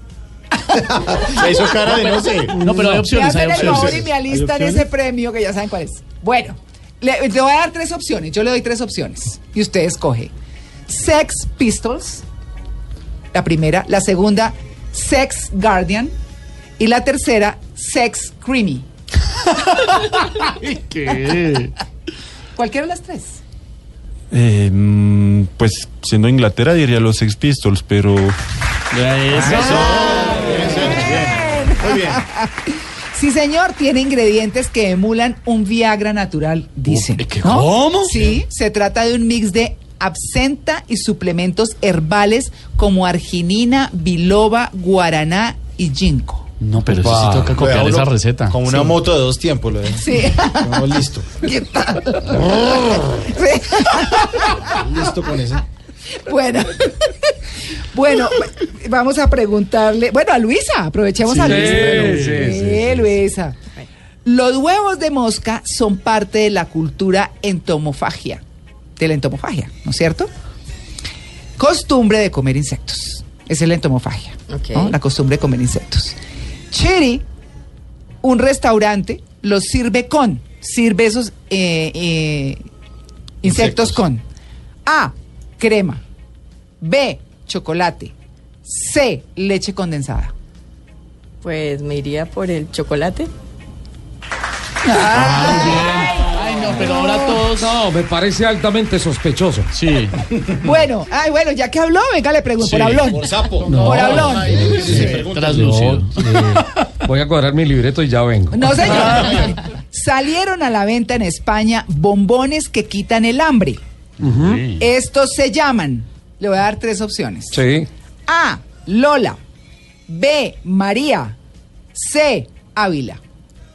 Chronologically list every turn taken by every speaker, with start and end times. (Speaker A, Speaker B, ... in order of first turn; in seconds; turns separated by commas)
Speaker A: 0.7-2.1, Speaker B: 0.8-2.6, Speaker C: 2.5-4.0, Speaker D: 2.7-3.0, Speaker A: 3.0-10.3, Speaker B: 3.5-4.8, Speaker A: 10.9-12.2, Speaker A: 13.3-16.1, Speaker A: 16.8-18.8, Speaker C: 19.9-21.7, Speaker A: 22.6-23.4, Speaker E: 24.3-28.4, Speaker C: 28.9-30.5, Speaker B: 29.3-32.2, Speaker A: 30.0-46.5, Speaker C: 36.9-38.1, Speaker C: 46.6-48.9, Speaker D: 46.9-47.6, Speaker B: 47.5-51.3, Speaker A: 49.9-50.8, Speaker A: 51.4-54.8, Speaker B: 54.6-55.6, Speaker A: 56.2-57.3, Speaker A: 57.9-63.6, Speaker C: 61.3-62.5, Speaker D: 61.4-63.1, Speaker A: 64.2-68.4, Speaker A: 69.0-70.3, Speaker A: 71.6-76.2, Speaker F: 74.5-75.0, Speaker A: 76.7-77.2, Speaker A: 78.2-82.6, Speaker A: 83.4-84.2, Speaker B: 83.5-83.9, Speaker A: 84.8-86.0, Speaker A: 86.8-88.1, Speaker A: 88.7-90.3, Speaker F: 91.4-93.3, Speaker A: 94.8-95.9, Speaker C: 95.1-97.8, Speaker D: 97.4-99.7, Speaker C: 99.7-100.2, Speaker A: 100.6-104.7, Speaker B: 102.6-105.7, Speaker D: 103.7-109.1, Speaker C: 104.5-106.5, Speaker A: 108.5-113.8, Speaker D: 114.2-114.7, Speaker C: 114.2-114.8, Speaker A: 114.8-117.6, Speaker D: 117.5-117.9, Speaker A: 118.3-119.4, Speaker A: 120.1-121.3, Speaker A: 122.0-123.2